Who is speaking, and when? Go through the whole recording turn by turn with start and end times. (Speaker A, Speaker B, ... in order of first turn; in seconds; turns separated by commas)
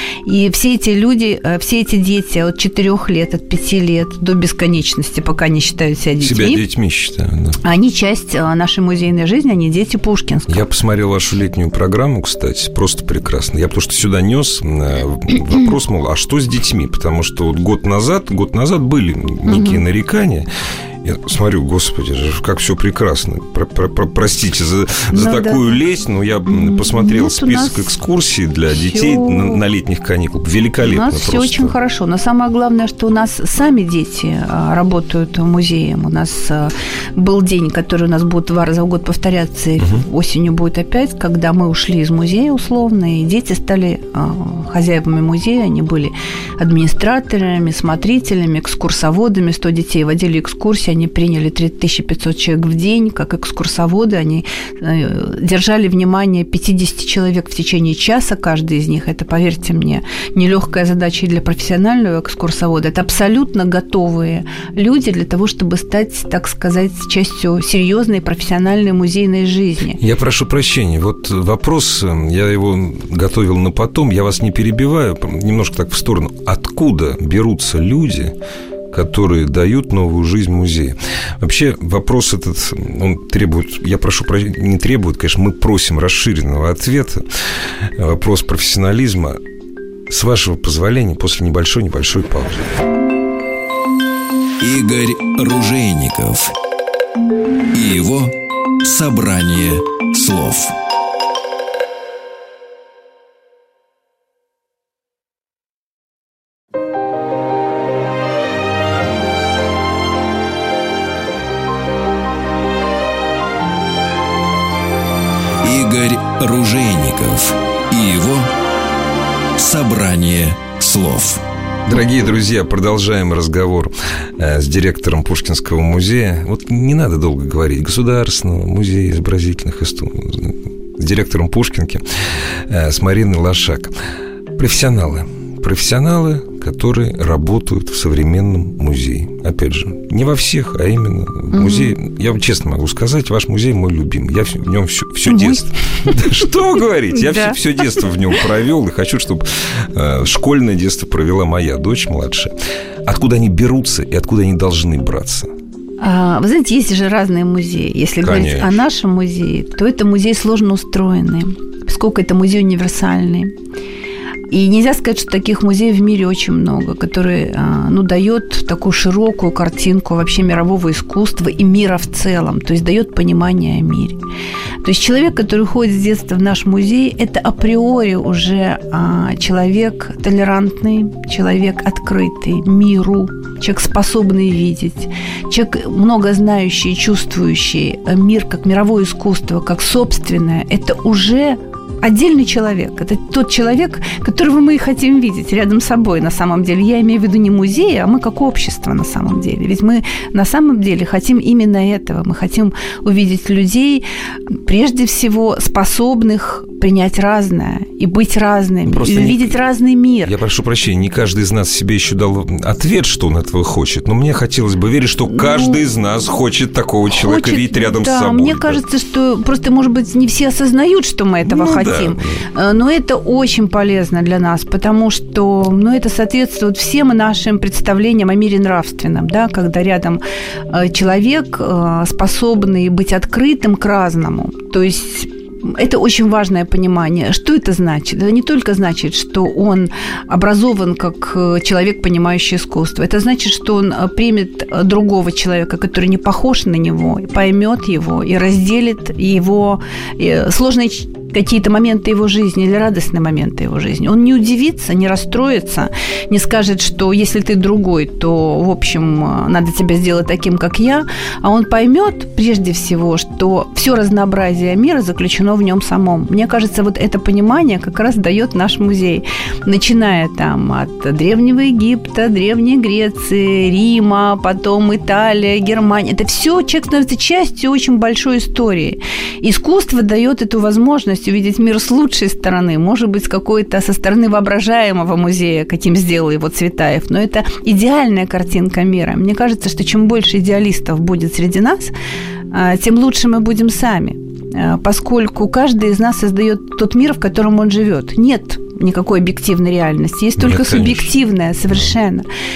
Speaker A: 0.2-6.6, Speaker B: 6.2-7.6, Speaker A: 7.6-10.7, Speaker B: 10.5-20.5, Speaker A: 19.5-19.8, Speaker B: 21.0-31.7, Speaker A: 25.1-25.8, Speaker A: 26.5-27.9, Speaker A: 28.7-29.6, Speaker A: 30.8-70.0, Speaker B: 39.8-40.0, Speaker B: 70.0-78.3, Speaker B: 78.9-87.2, Speaker B: 88.0-89.4, Speaker B: 90.1-92.8, Speaker C: 94.6-96.5, Speaker C: 97.7-100.8, Speaker C: 115.6-118.5, Speaker C: 119.6-121.4, Speaker B: 121.9-132.0, Speaker B: 132.7-133.9, Speaker B: 134.6-152.5, Speaker A: 141.5-142.0, Speaker A: 145.3-146.4, Speaker A: 147.1-147.6, Speaker B: 153.1-155.5, Speaker A: 156.0-163.5, Speaker B: 158.2-158.7, Speaker A: 164.5-174.2, Speaker A: 174.8-210.3, Speaker B: 208.9-209.6, Speaker B: 210.2-218.8, Speaker A: 215.2-215.8, Speaker A: 217.1-291.9, Speaker B: 221.4-222.4, Speaker A: 292.5-302.2, Speaker B: 300.4-301.1